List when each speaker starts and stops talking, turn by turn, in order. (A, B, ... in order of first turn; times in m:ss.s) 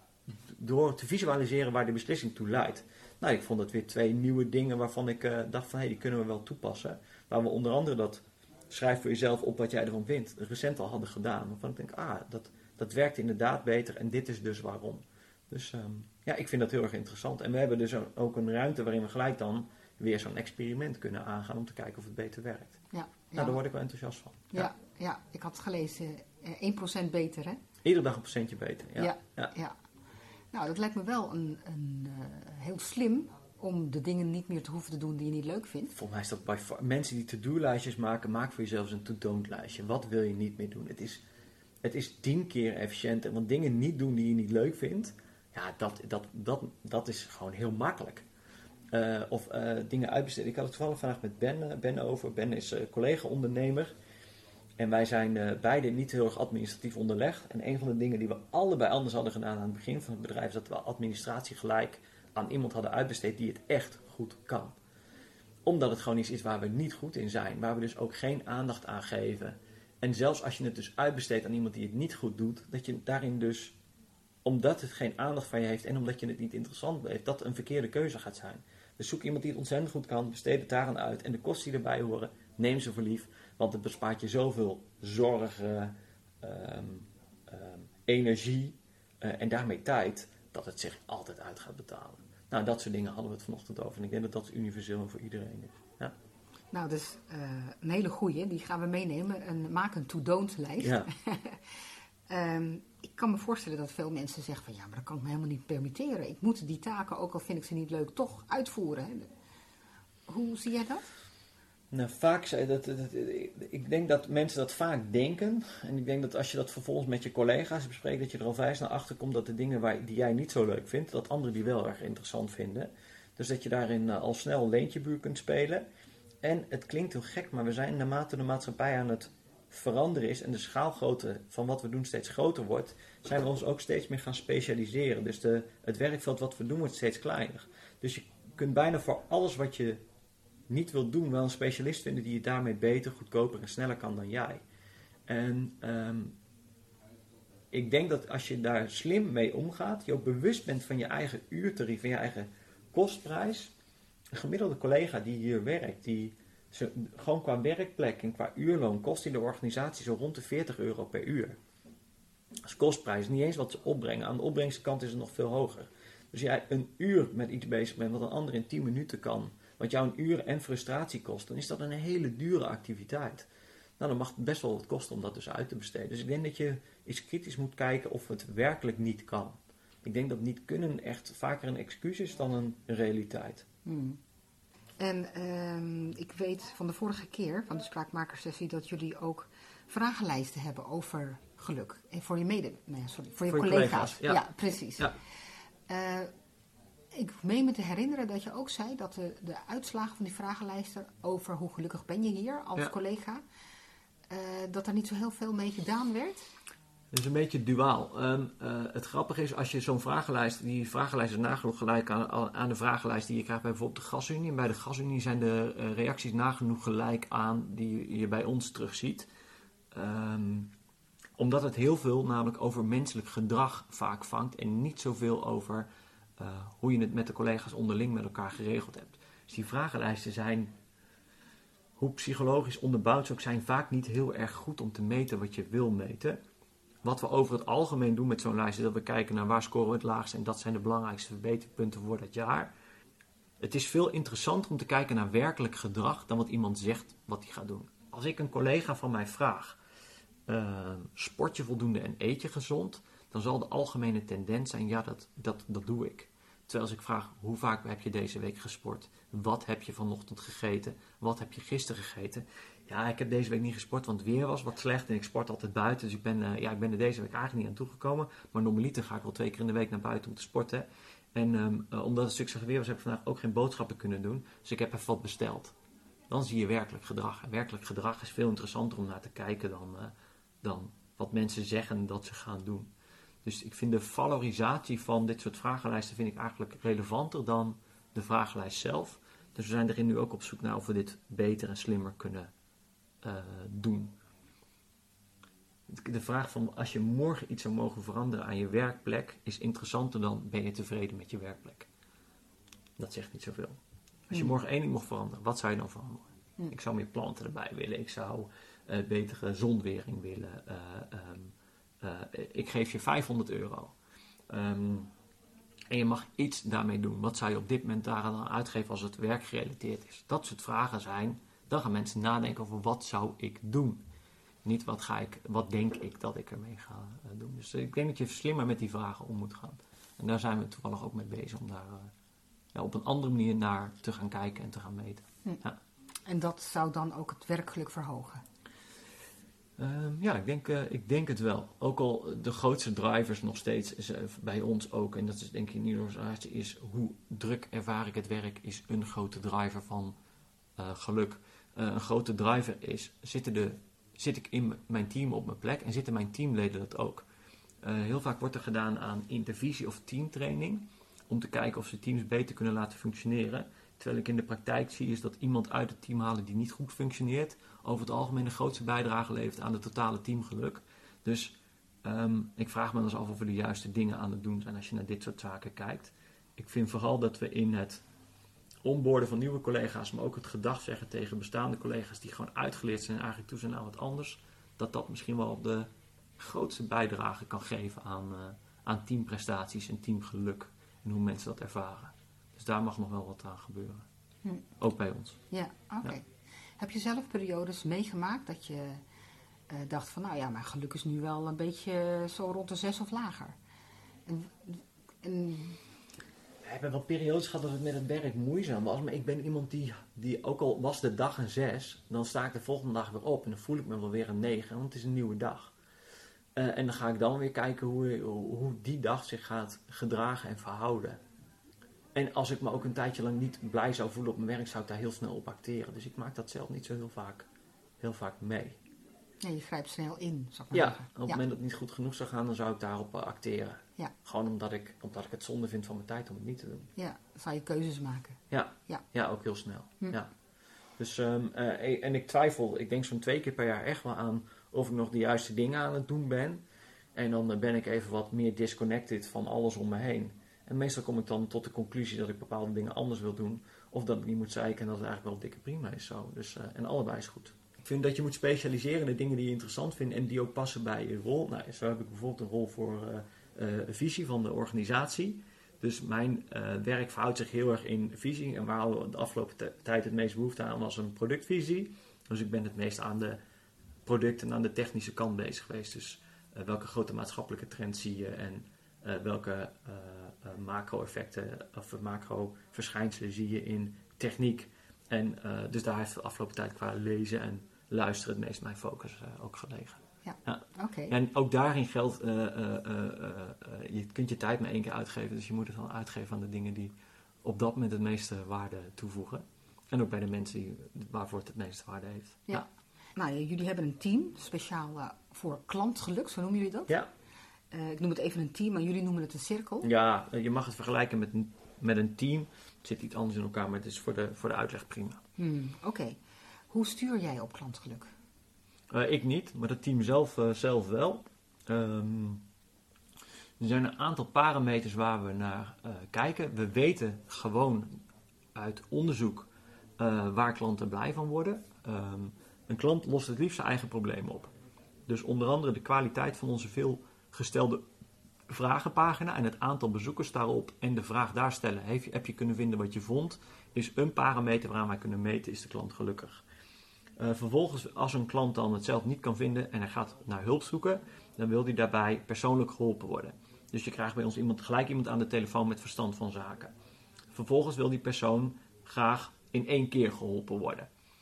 0:00.3-0:22.8 A
0:22.9-0:23.6 B
0:23.3-0:24.7 A
0:24.5-0:27.6 B
0:27.8-0:29.5 A
0:29.0-0:29.8 B
0:30.5-0:35.9 B
0:35.9-0:41.2 A
0:41.8-0:48.2 A
0:48.9-0:53.9 A
0:54.8-1:04.8 A
1:05.6-1:13.8 A
1:14.4-1:36.1 A
1:36.7-1:41.7 B
1:40.8-1:41.1 A
1:42.3-1:49.3 B
1:50.3-1:51.1 B
1:51.9-2:05.8 A
2:06.4-2:20.0 A
2:20.7-2:24.6 A
2:25.3-2:26.4 A
2:27.7-2:33.7 A
2:34.3-2:41.6 A
2:42.6-2:53.5 A
2:54.0-3:03.6 A
3:03.8-3:04.2 B
3:05.0-3:15.1 B
3:13.5-3:14.4 A
3:15.9-3:16.3 B
3:17.1-3:23.4 B
3:24.3-3:26.5 B
3:27.1-3:39.3 A
3:39.9-3:40.7 A
3:41.4-3:50.7 A
3:52.0-3:56.4 A
3:57.0-4:02.7 A
4:03.6-4:09.8 A
4:10.5-4:35.7 A
4:36.3-4:42.9 A
4:43.4-4:52.5 A
4:53.2-4:54.1 A
4:55.9-5:01.9 A
5:03.0-5:03.8 A
5:04.3-5:13.9 A
5:14.5-5:15.1 A
5:15.9-5:24.0 A
5:24.6-5:32.1 A
5:32.7-5:35.8 A
5:36.2-5:38.4 B
5:39.8-5:50.2 A
5:50.8-5:57.2 A
5:57.8-6:18.0 A
6:18.8-6:34.1 A
6:34.8-6:35.4 A
6:35.5-6:36.3 B
6:36.8-6:39.0 B
6:39.7-6:43.6 B
6:44.3-6:45.8 B
6:46.6-6:55.7 A
6:56.6-7:01.2 A
7:02.1-7:07.5 A
7:08.0-7:08.8 A
7:09.4-7:11.4 B
7:10.7-7:16.9 A
7:17.0-7:19.0 B
7:18.5-7:20.3 A
7:21.0-7:26.6 A
7:27.1-7:53.4 A
7:54.0-8:16.9 A
8:10.2-8:11.1 B
8:17.4-8:22.6 A
8:22.5-8:26.9 B
8:27.7-8:29.9 B
8:29.8-8:35.2 A
8:35.4-8:36.2 B
8:36.7-8:38.1 B
8:38.9-8:42.4 A
8:43.6-8:47.9 A
8:48.5-8:54.5 A
8:55.1-8:57.8 A
8:58.5-9:06.4 A
9:07.2-9:16.7 A
9:17.3-9:20.9 A